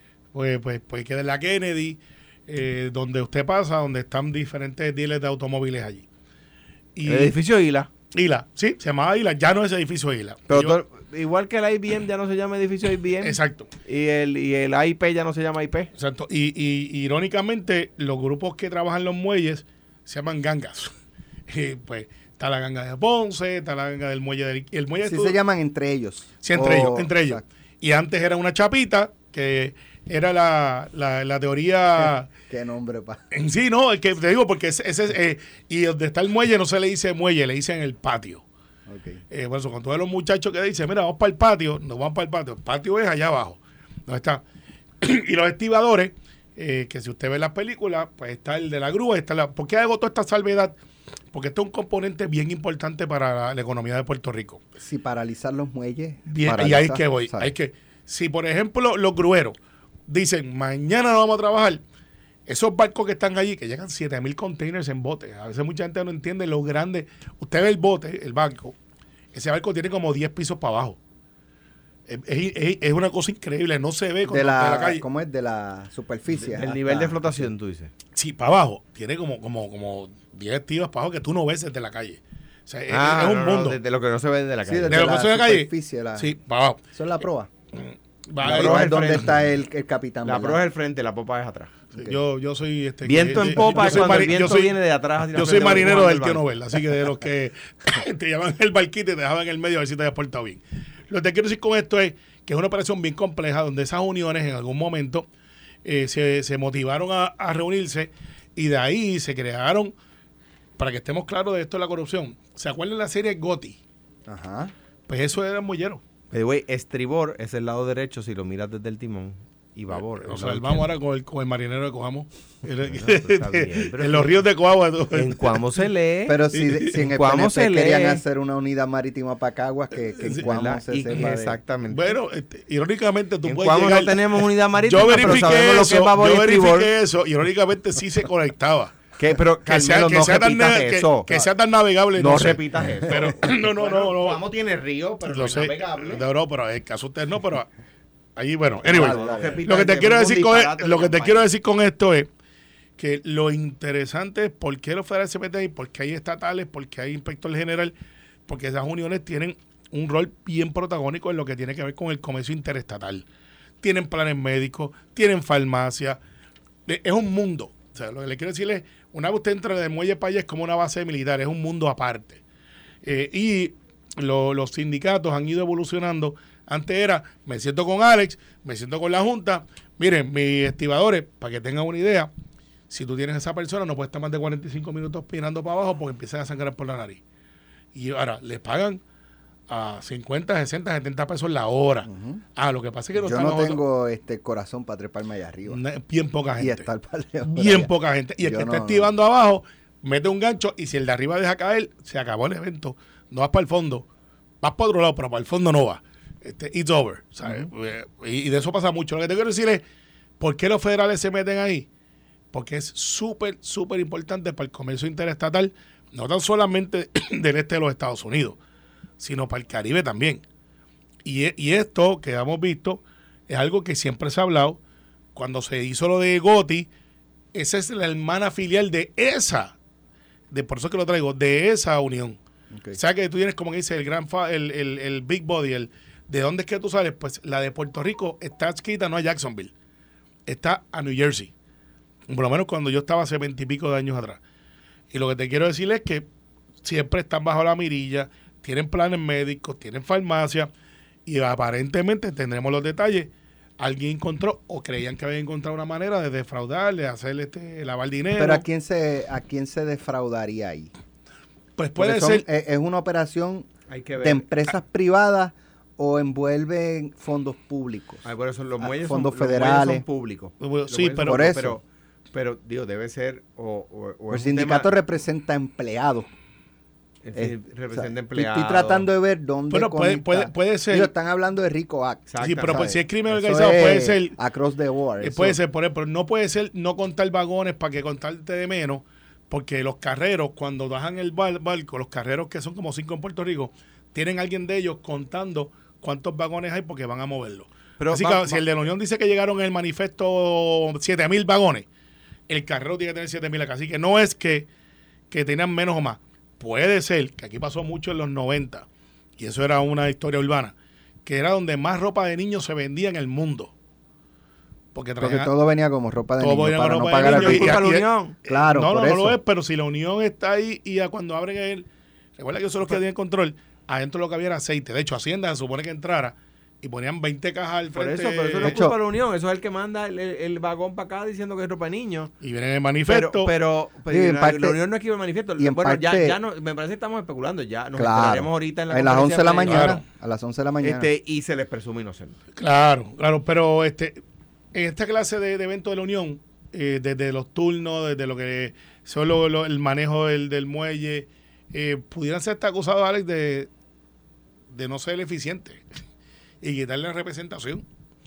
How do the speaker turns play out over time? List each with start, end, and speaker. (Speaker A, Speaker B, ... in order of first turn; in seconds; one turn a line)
Speaker A: 0.3-6.0
Speaker A: 6.9-7.3
Speaker B: 7.0-7.9
Speaker A: 8.1-10.8
Speaker B: 10.5-15.9
Speaker A: 13.2-13.7
Speaker A: 15.9-20.9
Speaker A: 21.5-25.4
Speaker C: 25.0-27.4
Speaker A: 26.4-32.3
Speaker C: 32.5-33.2
Speaker A: 33.3-38.4
Speaker C: 38.9-39.2
Speaker A: 39.3-44.4
Speaker A: 45.0-50.7
Speaker A: 51.3-54.6
Speaker C: 54.8-57.5
Speaker A: 56.3-59.5
Speaker A: 60.1-61.8
Speaker A: 62.5-68.8
Speaker A: 69.3-71.0
Speaker A: 72.1-75.0
Speaker C: 74.2-77.5
Speaker B: 76.3-77.9
Speaker A: 78.1-83.8
Speaker B: 82.9-85.1
Speaker C: 84.7-86.3
Speaker A: 84.9-86.8
Speaker C: 86.9-87.5
Speaker A: 87.7-89.3
Speaker B: 88.4-89.5
Speaker C: 88.4-90.6
Speaker B: 90.2-92.0
Speaker A: 92.0-94.8
Speaker B: 93.0-96.9
Speaker A: 95.3-105.3
Speaker A: 105.8-109.9
Speaker A: 110.8-113.8
Speaker C: 114.3-114.7
Speaker A: 115.1-116.0
Speaker B: 116.3-120.8
Speaker A: 120.2-125.6
Speaker B: 122.8-124.4
Speaker B: 125.1-128.2
Speaker C: 126.3-131.6
Speaker A: 126.5-127.0
Speaker A: 130.2-130.5
Speaker B: 130.4-132.1
Speaker A: 131.9-139.0
Speaker B: 133.4-136.9
Speaker B: 139.2-141.4
Speaker A: 139.7-144.4
Speaker B: 142.2-146.2
Speaker A: 145.3-147.7
Speaker A: 148.3-152.3
Speaker C: 148.8-149.6
Speaker B: 148.9-151.4
Speaker A: 153.0-157.9
Speaker A: 158.4-163.2
Speaker A: 163.8-166.2
Speaker A: 166.8-172.4
Speaker A: 173.0-182.3
Speaker A: 182.9-187.2
Speaker A: 187.9-189.0
Speaker A: 189.7-193.8
Speaker C: 192.1-192.4
Speaker C: 193.1-195.8
Speaker A: 195.7-196.9
Speaker C: 196.6-199.1
Speaker A: 197.5-204.1
Speaker A: 204.6-209.8
Speaker C: 207.4-207.7
Speaker A: 210.4-211.9
Speaker A: 212.5-218.6
Speaker A: 219.2-220.4
Speaker A: 221.2-224.8
Speaker A: 225.3-226.9
Speaker A: 227.5-229.8
Speaker A: 230.5-232.4
Speaker A: 232.9-239.7
Speaker A: 240.4-241.5
Speaker A: 242.3-244.4
Speaker A: 245.1-246.2
Speaker A: 246.8-250.7
Speaker A: 251.2-258.6
Speaker C: 258.4-260.9
Speaker A: 261.8-262.4
Speaker C: 262.0-263.7
Speaker B: 263.9-264.5
Speaker C: 264.2-268.2
Speaker B: 268.2-274.9
Speaker C: 268.8-270.0
Speaker A: 270.6-271.5
Speaker C: 271.2-271.8
Speaker C: 274.3-276.3
Speaker B: 277.2-279.1
Speaker C: 277.3-285.6
Speaker A: 279.7-281.1
Speaker B: 282.3-282.9
Speaker A: 282.4-284.4
Speaker A: 285.2-301.9
Speaker B: 298.0-298.6
Speaker A: 302.5-304.7
Speaker A: 305.3-308.9
Speaker A: 309.4-313.7
Speaker A: 314.9-315.5
Speaker C: 315.2-317.8
Speaker A: 316.4-328.8
Speaker B: 317.2-318.4
Speaker C: 318.5-319.4
Speaker B: 327.9-332.3
Speaker C: 328.6-328.9
Speaker A: 332.4-333.5
Speaker B: 333.1-340.0
Speaker C: 334.1-334.8
Speaker C: 335.6-336.4
Speaker C: 337.9-341.1
Speaker A: 339.7-340.0
Speaker B: 340.8-342.4
Speaker A: 342.6-344.2
Speaker A: 344.7-353.7
Speaker A: 354.7-355.8
Speaker A: 356.6-357.8